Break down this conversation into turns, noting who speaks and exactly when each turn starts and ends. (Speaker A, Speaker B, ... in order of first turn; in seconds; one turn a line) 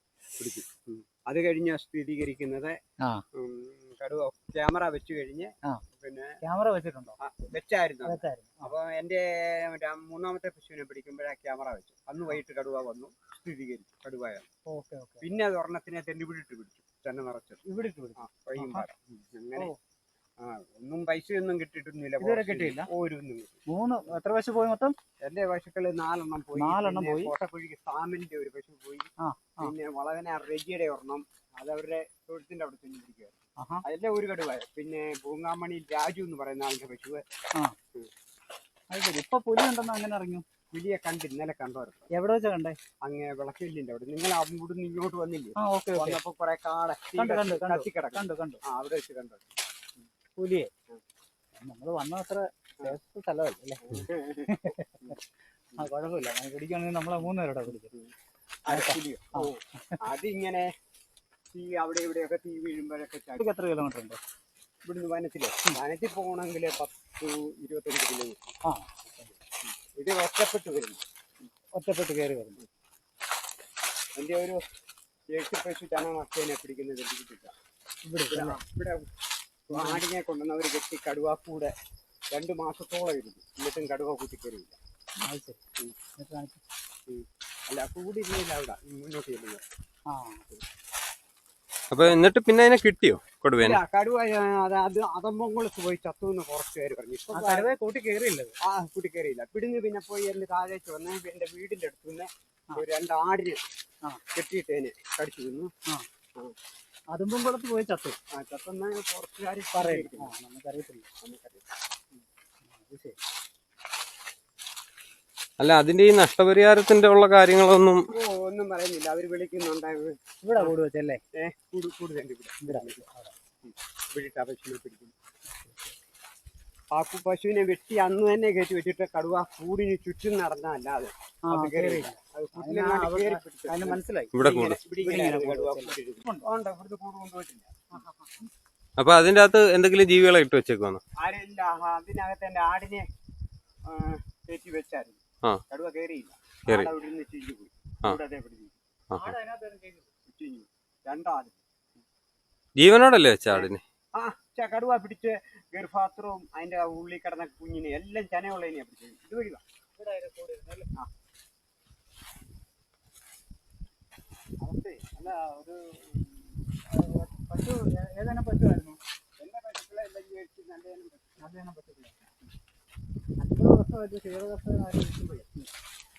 Speaker A: 0.4-2.7
Speaker A: 3.4-6.3
Speaker B: 6.4-7.2
Speaker A: 7.2-14.5
Speaker B: 8.0-8.7
Speaker B: 14.7-15.2
Speaker A: 15.2-17.6
Speaker B: 17.6-18.8
Speaker A: 18.2-19.7
Speaker A: 20.4-23.6
Speaker B: 22.2-22.9
Speaker B: 23.7-24.9
Speaker A: 25.2-37.2
Speaker B: 26.6-27.3
Speaker B: 29.2-29.7
Speaker B: 38.9-40.4
Speaker A: 40.7-42.0
Speaker B: 42.1-42.8
Speaker A: 43.0-49.5
Speaker B: 45.6-46.2
Speaker B: 47.2-48.6
Speaker B: 50.4-50.7
Speaker B: 51.5-55.2
Speaker A: 53.8-55.2
Speaker B: 55.8-57.9
Speaker A: 58.6-60.7
Speaker B: 58.7-60.0
Speaker A: 61.5-63.5
Speaker B: 63.4-64.2
Speaker A: 64.8-68.5
Speaker B: 68.6-69.3
Speaker A: 69.9-71.0
Speaker B: 71.7-72.6
Speaker A: 74.2-74.6
Speaker A: 75.3-77.5
Speaker B: 78.0-78.6
Speaker A: 78.3-79.0
Speaker A: 79.7-81.7
Speaker B: 79.7-80.0
Speaker A: 82.3-84.8
Speaker B: 85.2-85.6
Speaker B: 86.2-86.6
Speaker A: 87.1-89.6
Speaker B: 90.1-90.4
Speaker C: 91.9-93.8
Speaker A: 93.6-97.7
Speaker B: 97.3-98.5
Speaker A: 98.6-103.6
Speaker A: 104.3-105.7
Speaker B: 107.1-108.2
Speaker A: 108.3-110.3
Speaker B: 109.7-111.0
Speaker A: 111.2-111.7
Speaker B: 112.7-113.2
Speaker C: 115.6-118.1
Speaker A: 118.1-120.7
Speaker B: 120.4-121.2
Speaker A: 121.3-123.0
Speaker B: 122.6-123.4
Speaker A: 123.6-125.1
Speaker B: 125.6-125.9
Speaker A: 126.9-138.0
Speaker B: 131.5-134.4
Speaker C: 134.3-134.8
Speaker B: 134.9-136.5
Speaker B: 137.9-138.5
Speaker C: 139.0-141.0
Speaker A: 141.2-143.0
Speaker A: 143.9-145.2
Speaker A: 145.7-148.8
Speaker C: 146.7-146.9
Speaker B: 149.1-150.1
Speaker A: 150.3-151.6
Speaker C: 152.8-153.8
Speaker A: 153.5-159.6
Speaker B: 159.9-160.9
Speaker A: 164.6-166.4
Speaker B: 166.9-169.0
Speaker A: 169.4-171.4
Speaker B: 171.4-172.3
Speaker B: 173.4-175.7